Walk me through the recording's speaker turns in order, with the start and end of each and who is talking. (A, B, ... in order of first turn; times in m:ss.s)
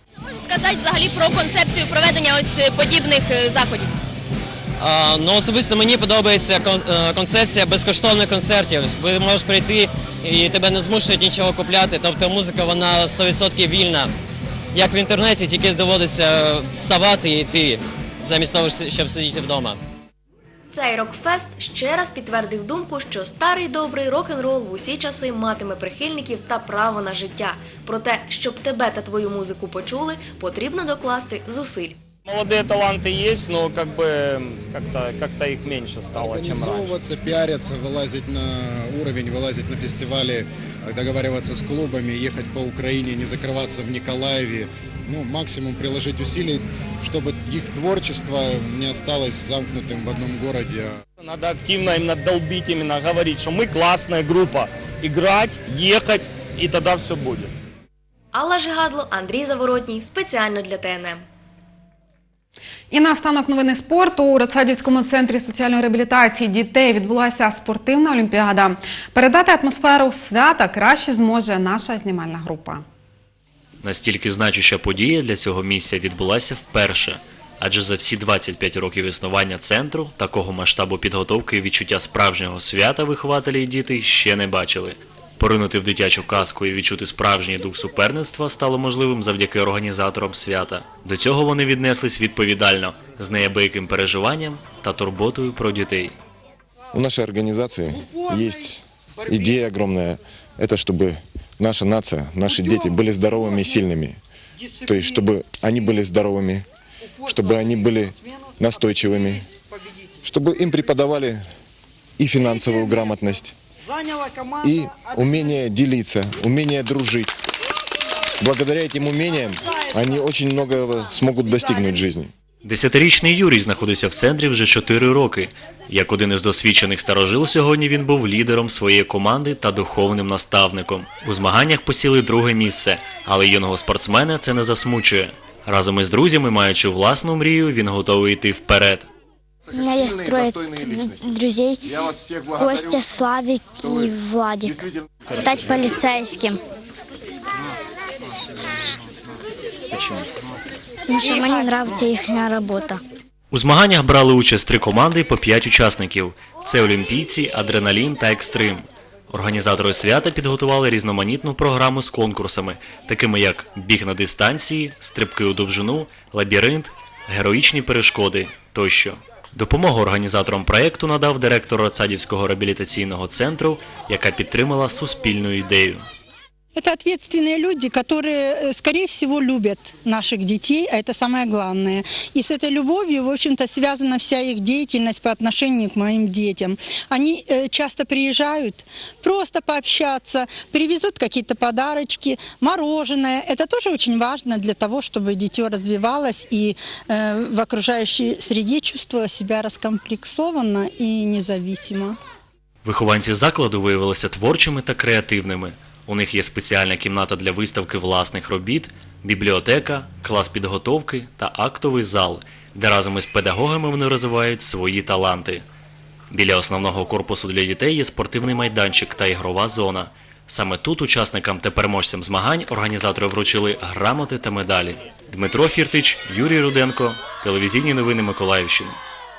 0:00.4-0:03.9 A
0:04.8-0:14.1 B
0:14.7-0:19.8 B
0:20.7-0:32.0 C
0:32.2-0:37.0 D
0:36.1-0:50.9 E
0:51.2-0:57.5 D
0:58.3-1:01.2 C
1:02.9-1:12.8 F
1:13.8-1:36.2 G
1:36.9-1:44.2 H
1:44.8-1:46.6 H
1:47.2-1:49.4 H
1:50.2-1:51.5 H
1:52.2-1:53.5 H
1:54.6-1:57.3 H
1:58.4-2:02.3 H
2:02.6-2:19.1 G
2:19.8-2:21.7 I
2:22.6-2:24.7 I
2:25.4-2:26.4 I
2:31.2-2:32.2 I
2:33.5-2:56.0 G
2:56.8-3:22.2 J
3:22.8-3:35.6 G
3:36.3-3:49.0 G